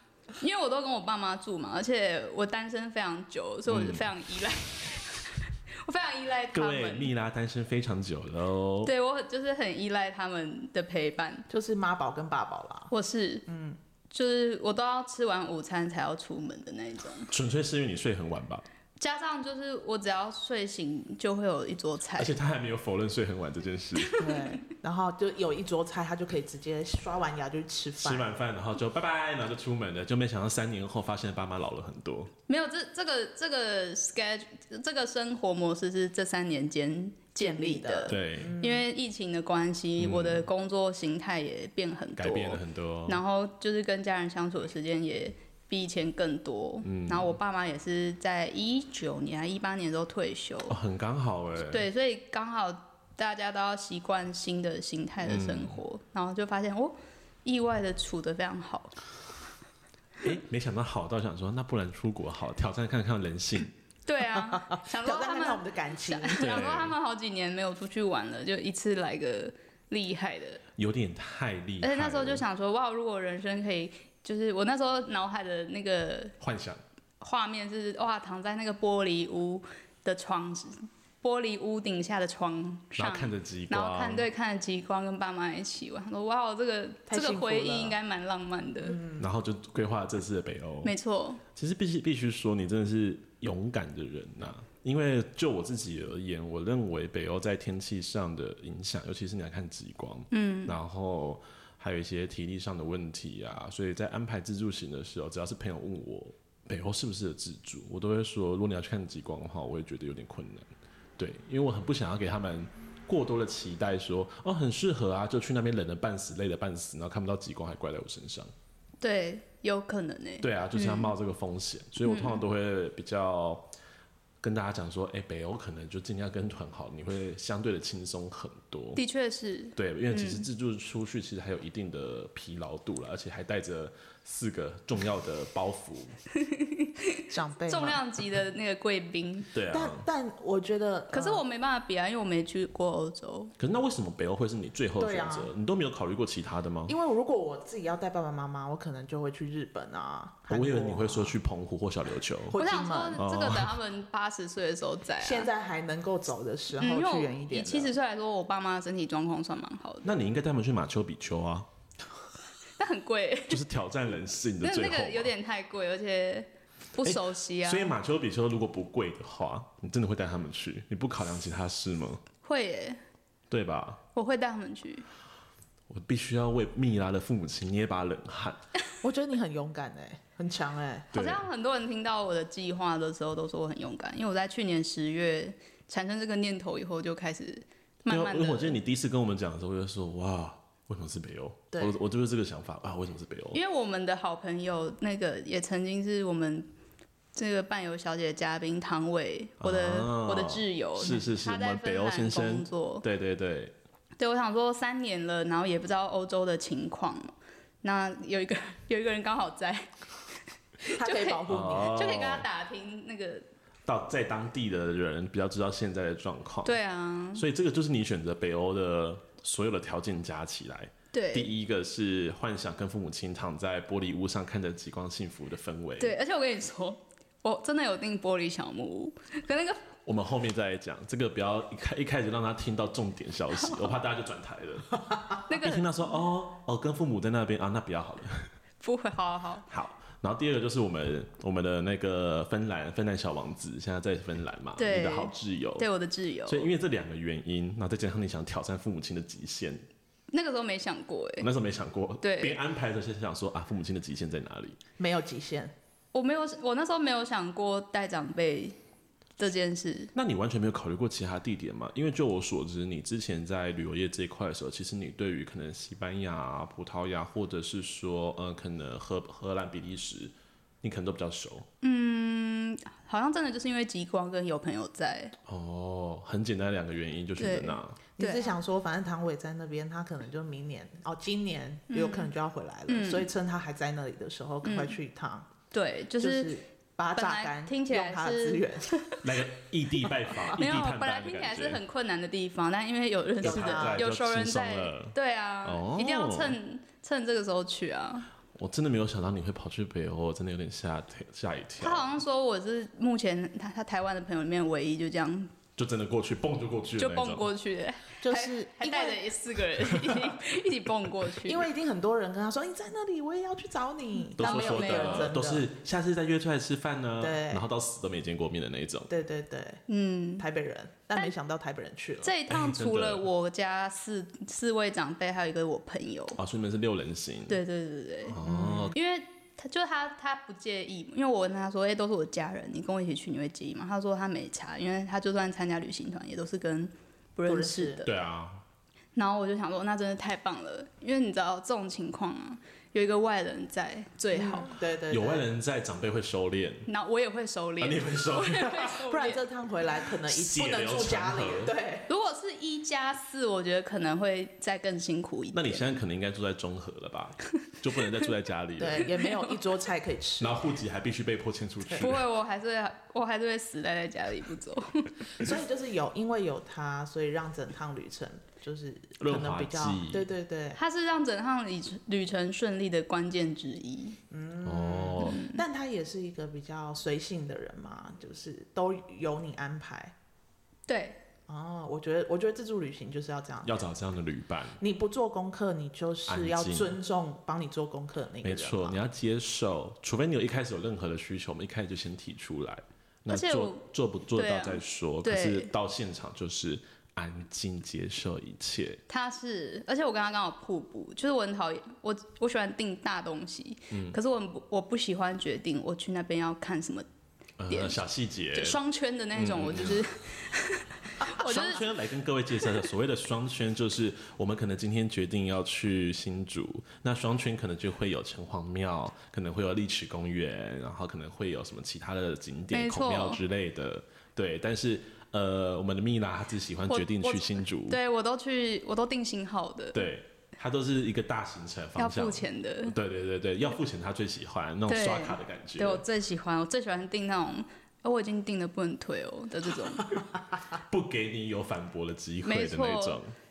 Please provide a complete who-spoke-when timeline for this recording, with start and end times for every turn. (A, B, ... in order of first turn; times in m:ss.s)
0:00.4-0:07.1 A
0:03.7-0:04.1 B
0:06.5-0:08.9 B
0:08.8-0:11.5 A
0:11.5-0:12.9 C
0:12.9-0:13.4 A
0:13.5-0:13.8 C
0:14.1-0:17.3 A
0:17.3-0:18.6 B
0:19.0-0:22.3 A
0:22.2-0:24.2 B
0:24.0-0:24.6 A
0:24.2-0:28.3 C
0:28.0-0:32.3 B
0:32.5-0:50.8 A
0:37.4-0:38.8 C
0:38.1-0:38.6 B
0:40.0-0:40.4 B
0:42.2-0:43.2 B
0:46.8-0:47.3 B
0:50.7-0:51.9 B
0:51.6-0:58.9 A
0:55.2-0:55.8 B
1:00.2-1:03.7 B
1:04.0-1:10.6 A
1:04.7-1:06.4 C
1:06.4-1:06.9 B
1:10.8-1:12.4 B
1:11.8-1:16.4 A
1:16.4-1:16.8 B
1:17.2-1:29.0 A
1:23.0-1:24.3 B
1:27.1-1:28.0 C
1:28.8-1:29.3 C
1:29.2-1:30.9 B
1:30.8-1:31.4 A
1:31.5-1:58.5 B
1:40.3-1:40.8 A
1:59.0-2:01.1 A
2:00.4-2:03.7 B
2:02.0-2:02.4 A
2:04.4-2:09.0 B
2:09.0-2:10.5 A
2:09.8-2:16.2 B
2:16.4-2:19.5 A
2:17.3-2:18.0 C
2:19.5-2:20.0 B
2:19.7-2:21.4 C
2:21.1-2:23.5 A
2:23.6-2:26.9 B
2:25.0-2:25.5 C
2:26.9-2:31.4 C
2:30.5-2:32.6 B
2:32.5-2:33.2 C
2:32.5-2:35.5 A
2:33.2-2:33.8 B
2:35.2-2:37.9 C
2:36.8-2:40.1 A
2:40.0-2:41.7 B
2:42.8-2:43.6 A
2:43.5-2:45.3 B
2:44.6-2:48.0 A
2:47.0-2:52.2 B
2:52.4-2:53.0 A
2:53.5-2:54.0 B
2:54.1-2:55.0 A
2:55.9-2:58.6 B
2:59.0-3:01.1 C
3:01.1-3:01.5 B
3:01.1-3:08.8 A
3:08.1-3:13.6 B
3:11.7-3:12.0 C
3:13.5-3:16.7 A
3:17.3-3:23.0 A
3:19.6-3:23.7 B
3:24.2-3:29.9 A
3:30.8-3:33.4 A
3:30.9-3:32.1 C
3:31.5-3:32.5 B
3:33.8-3:36.8 B
3:36.6-3:37.4 A
3:37.3-3:46.1 B
3:41.1-3:41.5 A
3:46.0-3:49.8 A
3:50.0-3:58.5 B
3:53.6-3:53.9 A
3:55.5-3:56.1 A
3:58.8-3:59.6 A
3:59.7-4:05.9 B
4:04.8-4:06.7 A
4:06.5-4:09.8 B
4:10.3-4:11.5 A
4:11.4-4:14.8 B
4:12.2-4:12.6 A
4:15.0-4:15.7 C
4:16.1-4:18.8 A
4:19.4-4:20.1 A
4:20.1-4:31.7 B
4:31.8-4:35.3 A
4:35.5-4:38.0 B
4:37.4-4:38.5 A
4:38.2-4:45.5 C
4:41.9-4:42.3 A
4:42.9-4:43.3 A
4:44.6-4:45.0 A
4:45.7-4:46.5 A
4:46.2-4:49.0 C
4:47.2-4:49.2 A
4:49.2-4:51.8 B
4:50.5-4:58.3 A
4:53.4-4:56.6 B
4:53.4-4:54.0 C
4:58.5-5:02.1 B
5:01.8-5:05.5 A
5:05.8-5:07.5 B
5:07.0-5:11.6 A
5:08.2-5:09.3 C
5:11.4-5:15.7 C
5:14.4-5:19.1 B
5:14.4-5:15.3 A
5:17.2-5:17.6 C
5:19.1-5:19.8 C
5:19.9-5:20.4 A
5:20.4-5:22.3 C
5:22.2-5:26.4 A
5:22.5-5:23.2 B
5:26.4-5:27.6 B
5:27.5-5:28.4 A
5:28.3-5:28.9 B
5:28.4-5:28.9 C
5:28.9-5:38.1 A
5:37.5-5:38.0 C
5:38.0-5:38.6 B
5:39.1-5:44.7 A
5:44.3-5:45.5 C
5:45.1-5:46.9 B
5:46.9-5:49.4 A
5:47.8-5:49.0 B
5:49.0-5:52.1 C
5:50.2-5:51.7 B
5:52.1-5:55.9 A
5:55.5-5:59.2 B
5:58.8-6:00.6 C
6:00.4-6:02.3 B
6:02.0-6:05.3 A
6:05.3-6:10.8 C
6:09.2-6:10.3 B
6:10.8-6:14.2 A
6:14.3-6:20.1 C
6:14.6-6:15.4 B
6:15.2-6:15.6 A
6:20.9-6:21.2 A
6:21.5-6:23.8 C
6:23.6-6:24.8 B
6:24.8-6:29.0 C
6:26.3-6:26.9 B
6:28.4-6:39.0 B
6:33.3-6:35.7 A
6:39.1-6:47.0 A
6:43.9-6:44.2 B
6:47.6-6:48.8 B
6:47.7-6:48.0 A
6:48.5-6:51.8 A
6:49.3-6:50.0 B
6:51.4-7:08.0 B
7:02.7-7:03.4 A
7:06.9-7:10.0 A
7:09.9-7:16.0 B
7:12.0-7:13.0 A
7:14.9-7:20.1 A
7:20.8-7:23.3 B
7:22.4-7:23.2 A